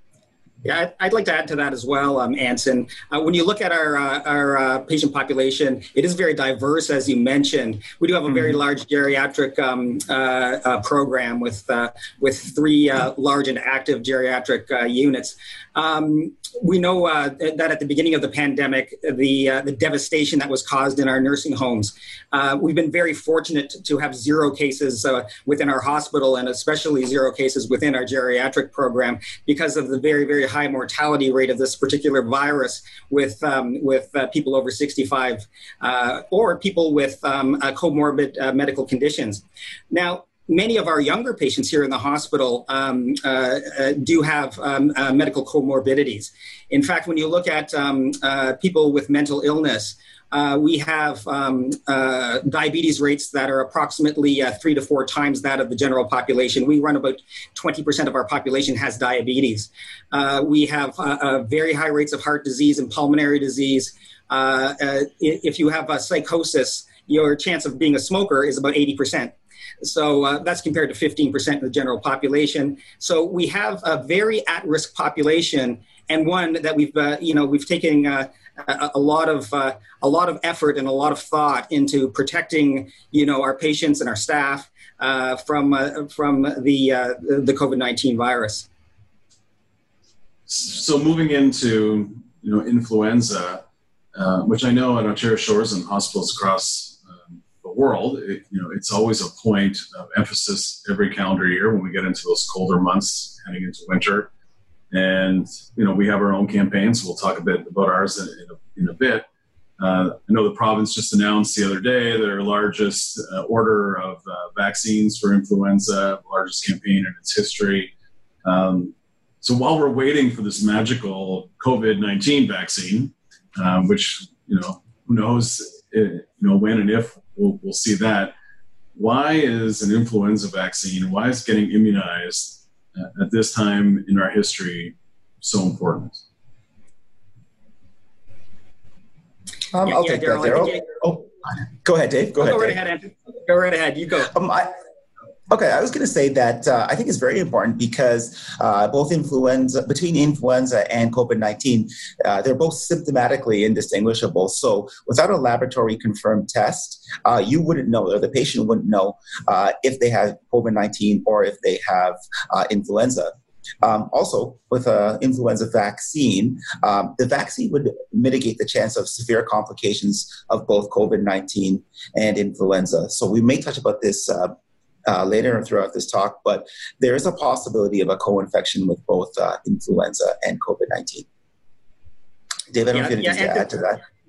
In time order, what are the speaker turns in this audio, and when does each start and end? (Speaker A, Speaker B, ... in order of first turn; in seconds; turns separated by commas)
Speaker A: 0.6-88.7, Speaker B: 90.5-93.6, Speaker B: 94.1-104.3, Speaker B: 104.9-109.2, Speaker B: 109.8-117.9, Speaker B: 118.4-128.3, Speaker B: 128.9-136.2, Speaker C: 139.7-141.3, Speaker A: 139.8-140.9, Speaker C: 141.8-142.8, Speaker A: 142.4-144.3, Speaker C: 144.3-144.7, Speaker C: 145.5-174.5, Speaker C: 175.1-181.2, Speaker C: 182.7-184.0, Speaker A: 182.9-183.7